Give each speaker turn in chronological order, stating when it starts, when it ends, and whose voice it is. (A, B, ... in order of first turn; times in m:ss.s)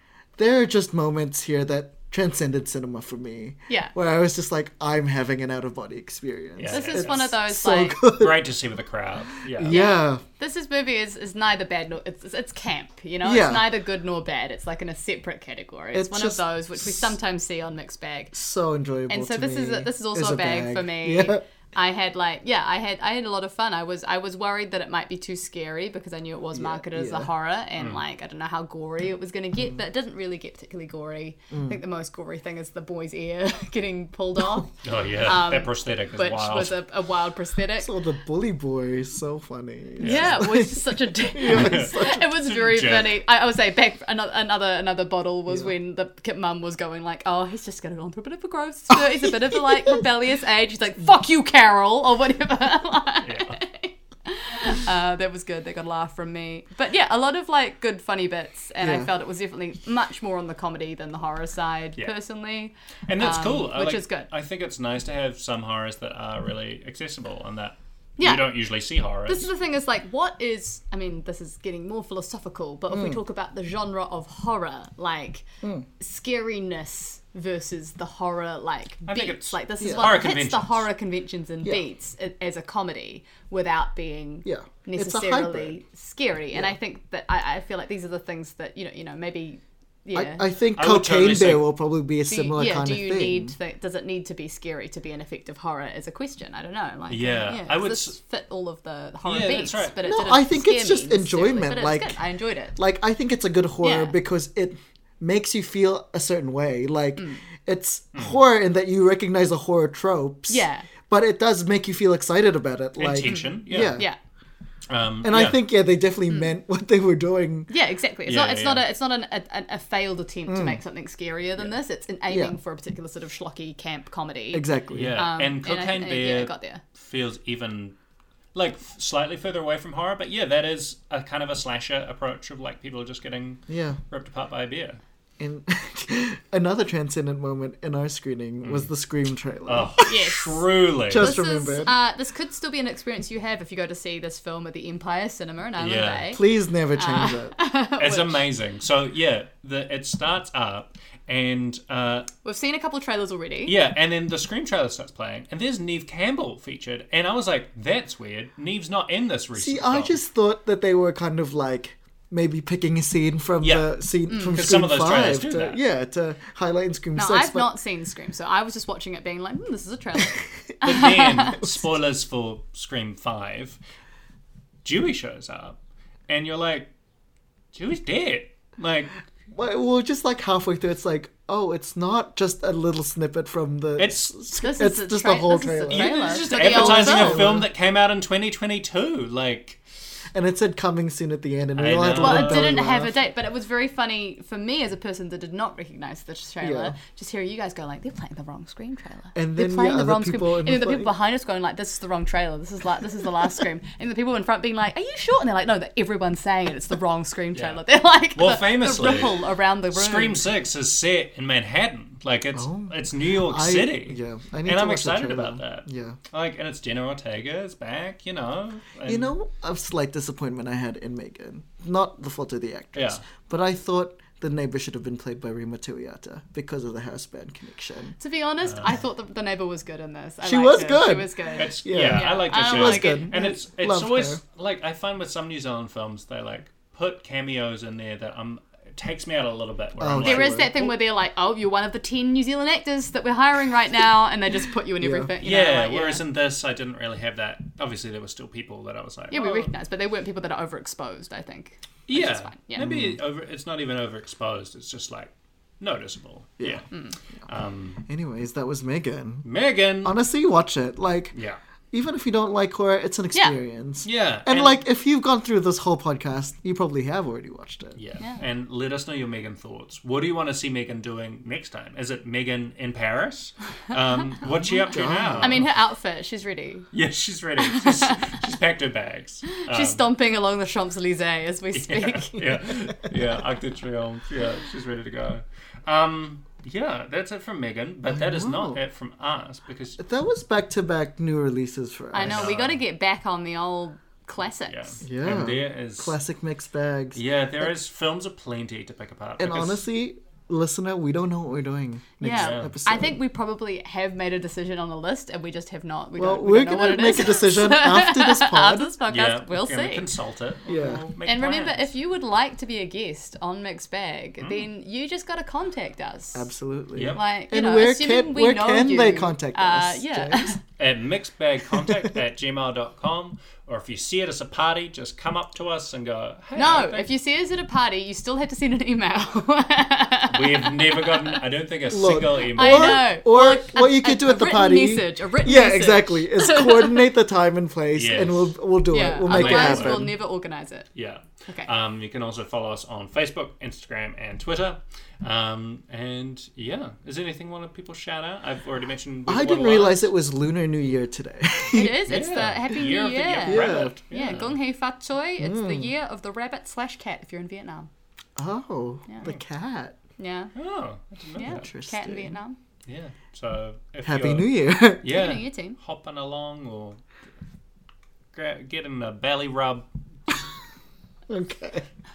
0:00.4-0:08.4 A
0:06.6-0:07.3 B
0:06.7-0:08.0 C
0:08.1-0:09.8 B
0:09.5-0:10.2 A
0:09.7-0:18.4 C
0:13.2-0:13.7 A
0:15.9-0:17.0 A
0:18.3-0:21.4 A
0:19.1-0:37.9 C
0:26.5-0:27.3 A
0:31.5-0:31.8 A
0:34.8-0:36.8 B
0:37.8-0:42.3 A
0:40.0-0:40.5 B
0:40.0-1:04.3 C
0:41.5-0:43.2 B
0:53.2-0:53.6 B
0:58.8-0:59.1 A
1:03.1-1:09.5 B
1:08.2-1:08.5 C
1:09.3-1:15.4 C
1:12.9-1:13.2 A
1:16.0-1:30.4 C
1:19.1-1:20.9 B
1:19.8-1:20.1 A
1:24.4-1:25.8 A
1:30.1-1:33.5 A
1:30.8-1:31.6 B
1:32.3-1:42.8 C
1:37.1-1:38.2 B
1:39.2-1:40.0 B
1:40.0-1:42.2 A
1:42.8-1:54.0 A
1:43.8-1:44.2 C
1:47.2-1:47.4 C
1:50.5-1:50.9 C
1:53.0-1:54.0 B
1:53.2-1:54.2 C
1:54.9-1:55.6 B
1:55.2-1:57.7 A
1:57.7-2:06.8 C
1:58.3-1:58.8 B
2:00.5-2:00.8 A
2:02.3-2:02.5 A
2:04.5-2:05.2 A
2:04.9-2:08.0 B
2:08.5-2:15.0 B
2:13.7-2:14.0 A
2:15.4-2:20.2 A
2:18.6-2:18.9 B
2:19.6-2:21.3 B
2:20.0-2:26.4 C
2:21.1-2:21.9 A
2:25.8-2:26.3 B
2:26.3-2:27.5 A
2:26.9-2:28.4 C
2:28.0-2:32.3 B
2:32.4-2:33.8 C
2:33.6-2:40.2 B
2:39.6-2:47.7 A
2:43.6-2:43.9 B
2:44.3-2:44.6 C
2:44.4-2:45.8 B
2:47.2-2:51.7 C
2:50.8-2:53.8 B
2:54.8-2:55.8 B
2:56.3-2:56.9 B
2:57.7-2:59.1 B
2:59.5-3:07.7 A
3:04.0-3:04.4 B
3:04.6-3:07.6 C
3:05.9-3:09.8 B
3:10.3-3:13.1 A
3:11.8-3:12.8 B
3:12.2-3:30.4 C
3:16.6-3:17.0 A
3:19.3-3:21.1 A
3:27.5-3:27.8 B
3:28.3-3:29.4 B
3:29.9-3:39.3 B
3:32.5-3:36.2 A
3:39.0-3:48.2 A
3:42.9-3:43.2 B
3:48.2-3:53.3 C
3:48.7-3:48.9 B
3:50.4-3:54.4 A
3:51.5-4:00.6 B
4:00.0-4:00.9 A
4:00.2-4:06.2 C
4:05.0-4:05.3 A
4:05.4-4:09.7 B
4:09.3-4:12.9 C
4:12.1-4:16.9 B
4:12.8-4:13.1 A
4:17.5-4:18.0 B
4:18.0-4:19.4 A
4:19.4-4:20.2 B
4:20.0-4:21.3 A
4:21.3-4:21.6 B
4:21.9-4:28.0 A
4:24.0-4:24.8 B
4:28.0-4:35.7 B
4:34.6-4:35.6 A
4:35.4-4:36.9 C
4:36.9-4:40.0 B
4:37.6-4:38.4 C
4:39.5-4:42.6 C
4:41.7-4:50.0 B
4:48.1-4:48.8 A
4:50.0-4:52.5 A
4:52.1-4:55.0 C
4:52.2-4:52.8 B
4:54.7-4:56.2 B
4:55.0-4:57.7 A
4:57.2-4:59.8 B
4:59.4-5:03.2 A
5:02.2-5:10.1 C
5:02.3-5:02.7 B
5:06.2-5:08.9 A
5:09.1-5:11.9 B
5:10.7-5:11.0 A
5:11.2-5:16.5 C
5:14.4-5:14.7 B
5:16.3-5:20.6 A
5:16.9-5:17.2 B
5:17.1-5:20.6 C
5:20.8-5:27.1 B
5:26.5-5:31.4 C
5:30.3-5:33.2 B
5:31.9-5:40.1 A
5:32.6-5:37.1 C
5:37.9-5:38.5 B
5:38.9-5:40.9 C
5:39.2-5:40.1 B
5:40.9-5:50.1 B
5:49.3-5:52.1 A
5:51.7-5:57.9 C
5:52.1-5:54.6 B
5:53.4-5:53.9 A
5:55.4-5:55.9 A
5:58.4-6:00.0 A
6:00.2-6:00.5 C
6:00.5-6:01.6 B
6:01.4-6:02.6 C
6:01.4-6:02.3 A
6:02.9-6:07.0 B
6:04.0-6:05.0 A
6:05.0-6:05.8 C
6:08.3-6:09.9 B
6:11.3-6:11.8 A